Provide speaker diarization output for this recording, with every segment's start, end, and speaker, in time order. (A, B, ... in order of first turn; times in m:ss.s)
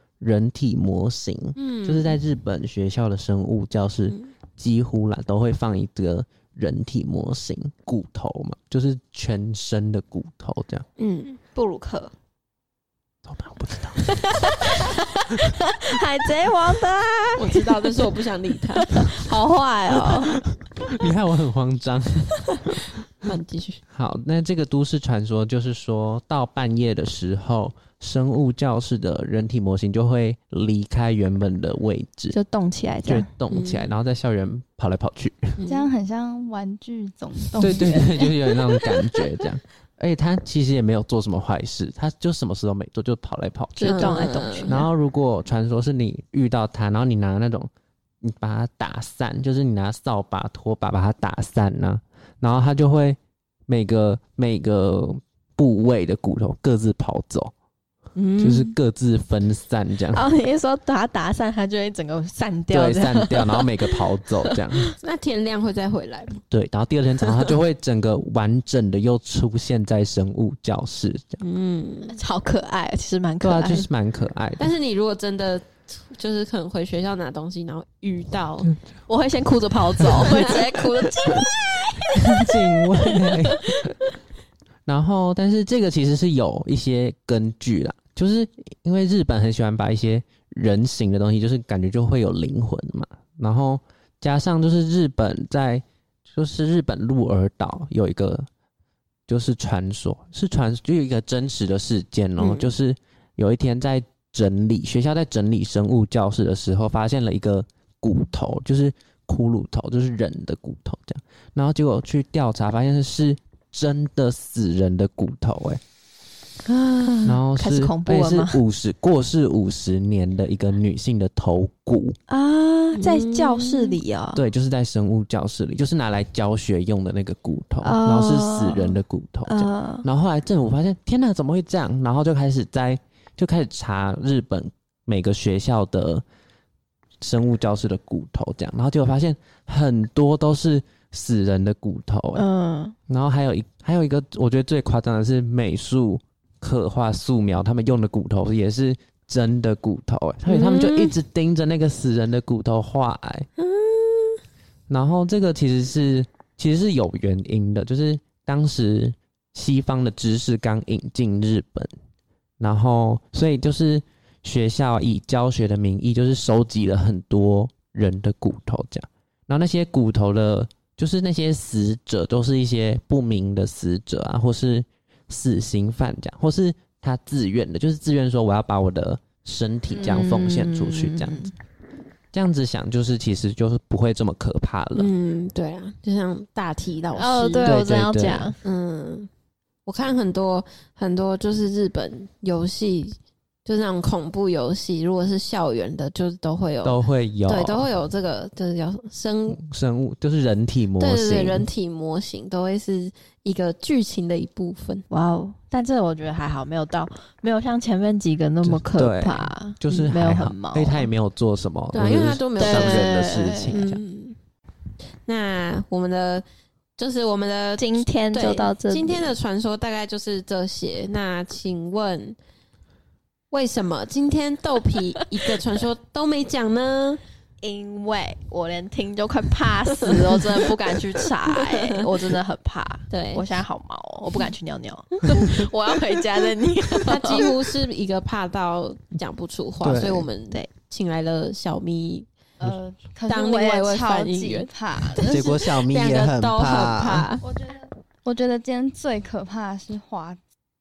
0:00.2-0:10.8 A
0:01.6-0:02.2 B
0:11.0-0:11.4 B
0:11.5-0:12.1 C
0:13.2-0:15.5 A
0:14.0-0:18.2 C
0:17.4-0:19.1 B
0:18.8-0:20.4 C
0:19.9-0:20.2 A
0:20.8-0:22.5 A
0:23.2-0:23.8 B
0:23.9-0:32.4 A
0:32.3-0:33.3 C
0:33.0-0:35.6 A
0:33.5-0:33.9 B
0:35.6-0:35.9 B
0:35.7-0:38.4 D
0:37.6-0:47.7 A
0:43.8-0:44.8 C
0:43.8-0:44.8 B
0:48.2-0:57.5 A
0:58.2-0:58.7 B
0:58.4-1:00.3 A
1:00.1-1:04.9 C
1:02.7-1:04.9 A
1:05.0-1:06.4 B
1:06.5-1:11.4 A
1:11.4-1:12.2 B
1:12.1-1:13.9 C
1:13.4-1:14.7 A
1:14.6-1:18.7 B
1:19.1-1:24.1 C
1:20.2-1:20.9 B
1:22.2-1:23.9 A
1:24.8-1:38.5 A
1:39.3-1:55.8 A
1:42.4-1:42.7 B
1:56.6-1:58.6 C
1:57.2-2:02.2 A
2:02.3-2:04.4 C
2:03.0-2:04.0 B
2:04.3-2:16.2 A
2:07.8-2:10.0 C
2:17.2-2:22.4 A
2:22.3-2:22.9 C
2:23.1-2:33.5 A
2:30.5-2:31.1 B
2:33.6-2:34.4 B
2:34.9-2:41.9 A
2:42.6-3:01.5 A
3:00.0-3:01.5 C
3:02.3-3:05.1 A
3:04.9-3:07.7 B
3:07.2-3:08.6 C
3:07.6-3:08.6 A
3:08.6-3:09.3 B
3:09.8-3:19.6 B
3:16.8-3:17.9 A
3:19.5-3:21.6 A
3:21.0-3:25.0 B
3:25.1-3:31.0 C
3:28.6-3:34.0 A
3:31.9-3:34.4 B
3:32.6-3:33.7 C
3:35.2-3:36.4 B
3:37.0-3:42.4 B
3:37.8-3:39.4 C
3:43.5-3:47.2 B
3:47.6-3:57.6 C
3:50.0-3:52.1 B
3:53.1-3:53.5 B
3:55.2-3:55.6 B
3:57.0-4:02.3 B
3:59.8-4:00.2 A
4:02.6-4:05.6 D
4:03.3-4:07.4 B
4:05.3-4:07.3 A
4:07.4-4:10.4 D